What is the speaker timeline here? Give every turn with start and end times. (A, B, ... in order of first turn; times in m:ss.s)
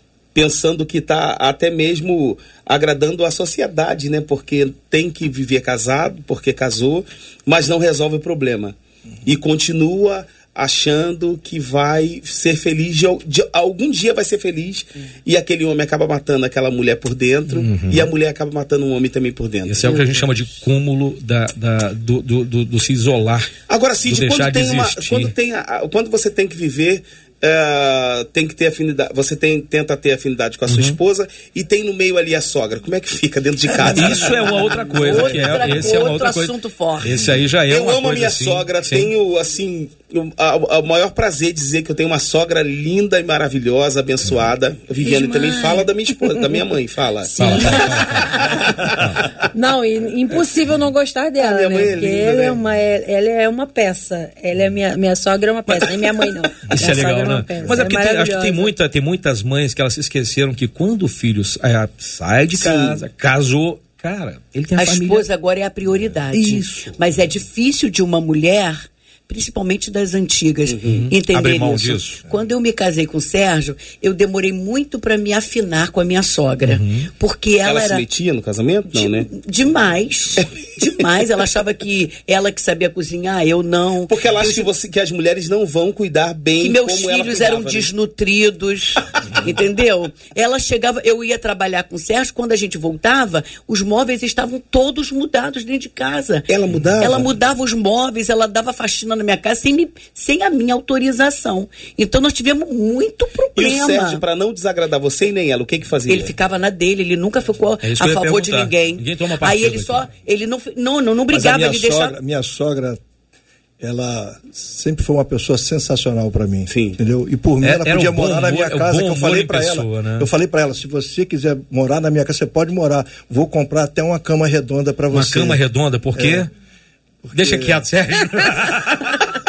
0:00.4-0:19.9 A
0:17.5-0:18.1 B
0:19.7-0:23.5 B
0:19.8-0:20.2 C
0:23.7-0:35.9 A
0:24.0-0:25.3 B
0:30.7-0:31.0 B
0:33.8-0:37.1 C
0:33.9-0:39.1 B
0:37.7-0:49.1 A
0:45.0-0:46.3 D
0:47.3-0:48.0 D
0:47.4-0:49.3 B
0:48.0-0:48.4 C
0:49.5-0:58.7 D
0:51.4-0:52.6 A
0:56.7-1:05.3 B
1:02.5-1:03.0 A
1:04.7-1:18.0 C
1:06.3-1:07.0 B
1:10.7-1:11.0 A
1:10.9-1:12.2 B
1:16.6-1:17.1 B
1:17.6-1:19.3 A
1:18.9-1:24.7 C
1:24.1-1:27.9 A
1:26.6-1:36.5 C
1:36.5-1:37.3 A
1:37.0-1:44.2 C
1:43.6-1:46.3 A
1:46.1-1:52.2 C
1:47.8-1:50.1 B
1:51.3-1:53.0 E
1:53.8-2:05.6 E
1:56.7-1:57.0 A
1:57.6-2:00.3 B
2:05.1-2:06.5 B
2:06.1-2:06.5 E
2:07.2-2:07.8 E
2:07.3-2:09.1 B